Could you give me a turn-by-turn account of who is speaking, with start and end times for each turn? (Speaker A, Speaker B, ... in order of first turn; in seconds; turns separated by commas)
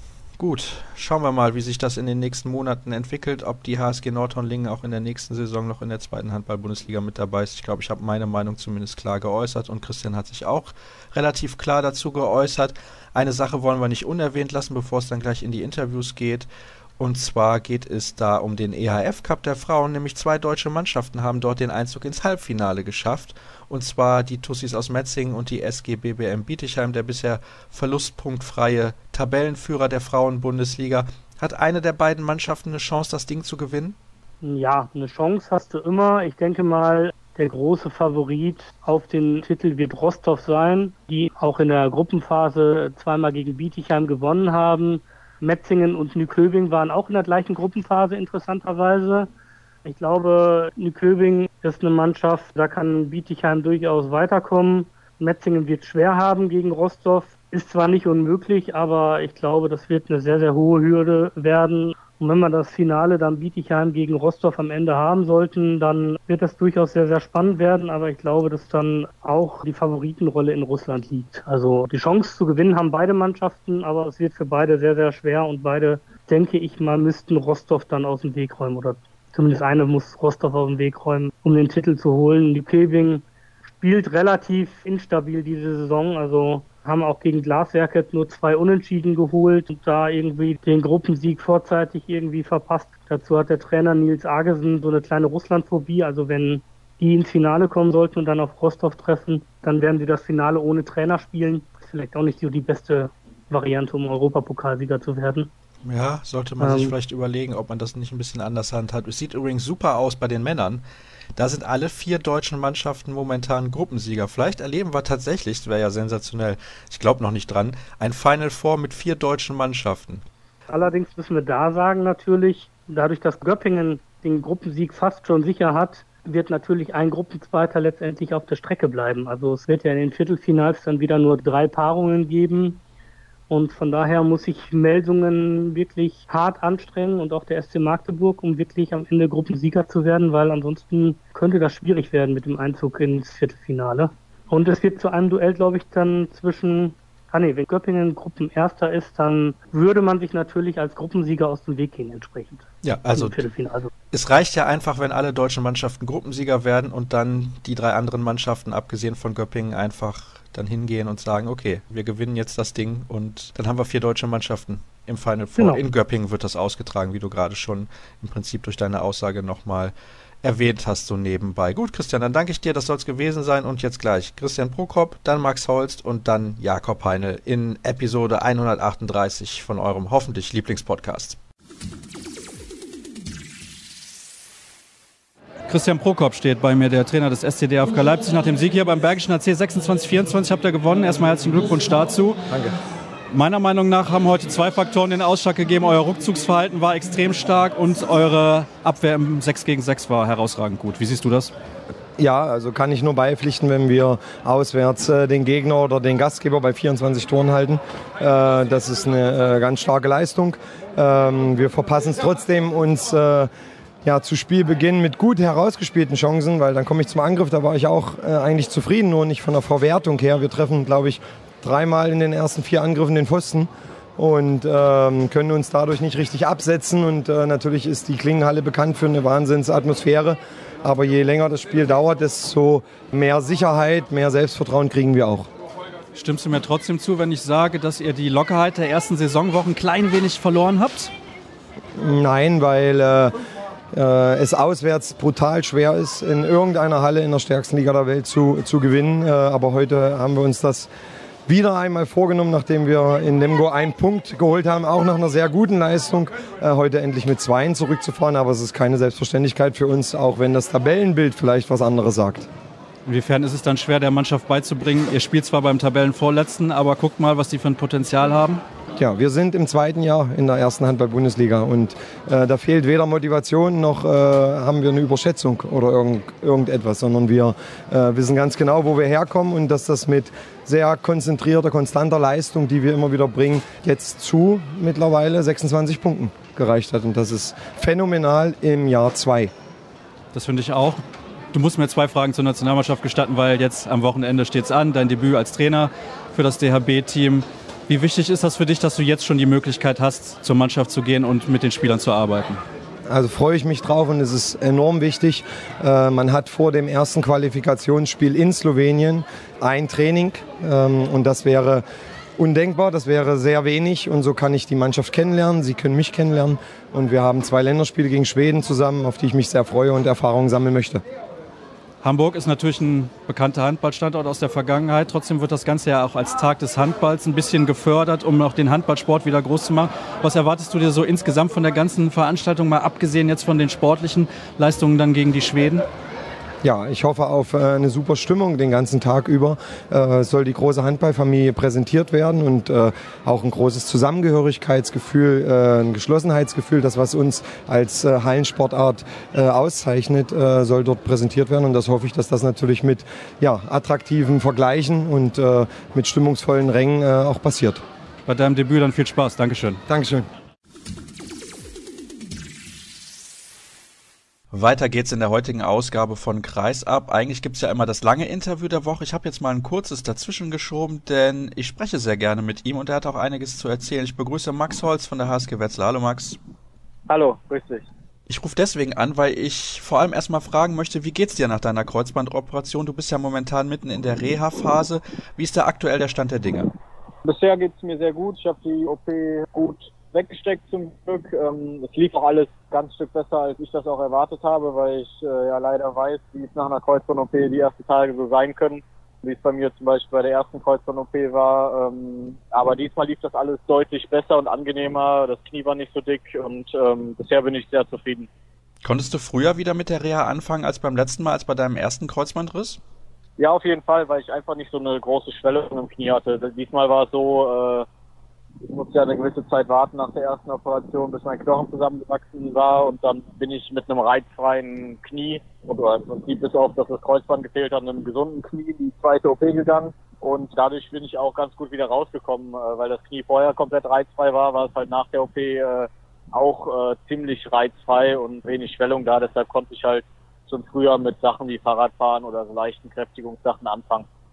Speaker A: 0.4-16.5, Speaker A: 17.0-34.0, Speaker B: 34.4-49.3, Speaker B: 49.8-83.2, Speaker B: 83.8-105.5, Speaker A: 105.8-110.8, Speaker B: 106.6-106.9, Speaker A: 111.3-120.2, Speaker B: 120.7-132.8, Speaker B: 133.5-153.9, Speaker A: 152.8-153.4, Speaker A: 154.1-181.4, Speaker C: 185.7-192.4, Speaker C: 193.3-201.5, Speaker D: 202.2-213.5, Speaker D: 214.0-235.5, Speaker C: 236.1-241.1, Speaker D: 242.0-243.3, Speaker D: 243.9-250.9, Speaker D: 251.5-262.5, Speaker C: 263.1-268.6, Speaker D: 269.0-289.5, Speaker C: 290.3-291.0, Speaker C: 291.5-302.6, Speaker D: 303.1-311.8, Speaker D: 312.4-321.0, Speaker C: 322.0-335.8, Speaker D: 336.6-357.8, Speaker C: 358.2-359.8, Speaker D: 359.9-360.3, Speaker A: 364.5-376.4, Speaker E: 377.1-377.9, Speaker A: 378.3-386.7, Speaker E: 387.2-408.3, Speaker A: 408.8-412.8, Speaker E: 413.4-417.9, Speaker E: 418.6-444.1